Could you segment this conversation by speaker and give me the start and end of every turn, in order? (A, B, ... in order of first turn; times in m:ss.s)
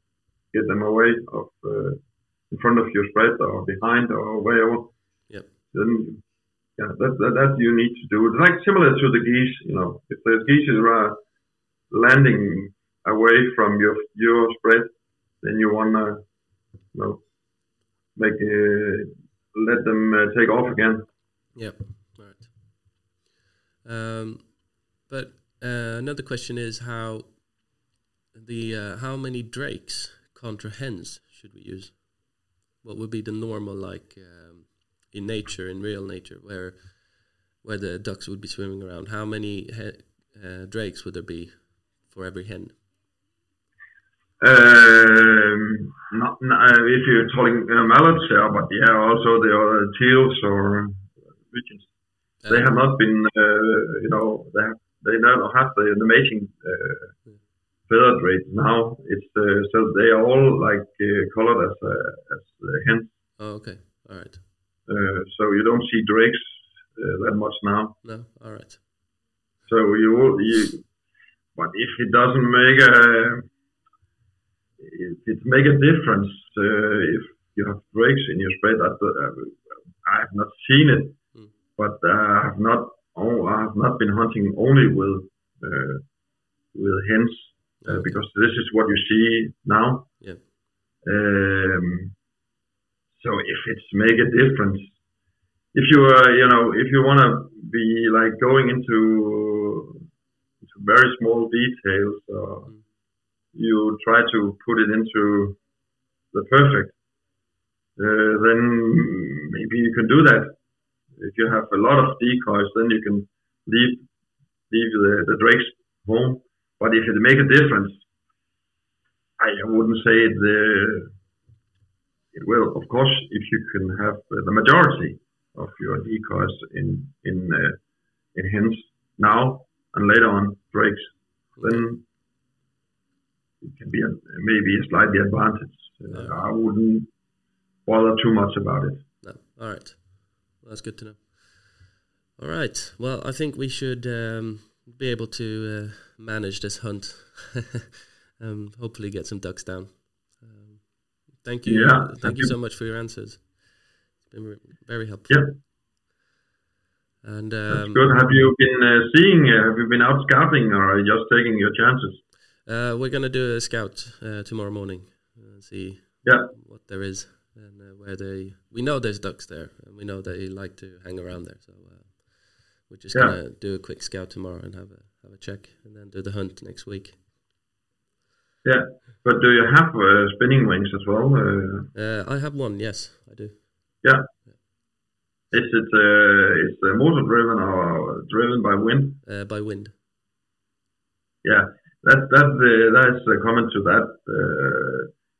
0:00.5-0:02.0 A
0:02.5-0:04.9 A
0:05.7-0:06.2 A
0:06.8-0:11.2 A
0:11.9-0:14.9 A
0:15.4-0:16.2 A
0:16.9-0:17.2 A
0:18.1-0:21.1 A
0:21.5-0:22.9 B
0:23.8-0:27.4 B
0:28.3-0:42.8 B
0:44.4-0:51.9 A
0:52.4-0:52.7 B
0:52.5-0:57.2 A
0:57.9-1:03.1 A
1:03.4-1:04.4 B
1:04.9-1:08.0 A
1:08.0-1:08.8 B
1:09.7-1:10.8 A
1:11.6-1:13.4 A
1:14.8-1:21.2 A
1:21.8-1:26.0 A
1:26.7-1:30.2 A
1:27.8-1:28.2 B
1:31.0-1:32.1 A
1:33.2-1:34.9 A
1:35.7-1:40.0 A
1:40.6-1:42.9 A
1:43.5-1:45.6 A
1:46.3-1:47.0 A
1:48.0-1:50.6 A
1:51.2-1:54.0 A
1:54.7-1:58.0 A
1:59.4-2:01.1 A
2:02.3-2:07.8 A
2:08.3-2:12.0 A
2:13.6-2:17.1 A
2:16.1-2:16.4 B
2:17.8-2:19.0 A
2:19.2-2:27.8 B
2:28.4-2:35.4 B
2:31.6-2:32.5 A
2:35.3-2:35.6 A
2:37.2-2:38.1 B
2:37.7-2:42.2 A
2:42.6-2:57.2 B
2:46.2-2:46.5 A
2:58.6-3:01.9 A
3:01.9-3:03.8 B
3:05.5-3:09.2 A
3:09.2-3:09.9 B
3:11.4-3:15.1 A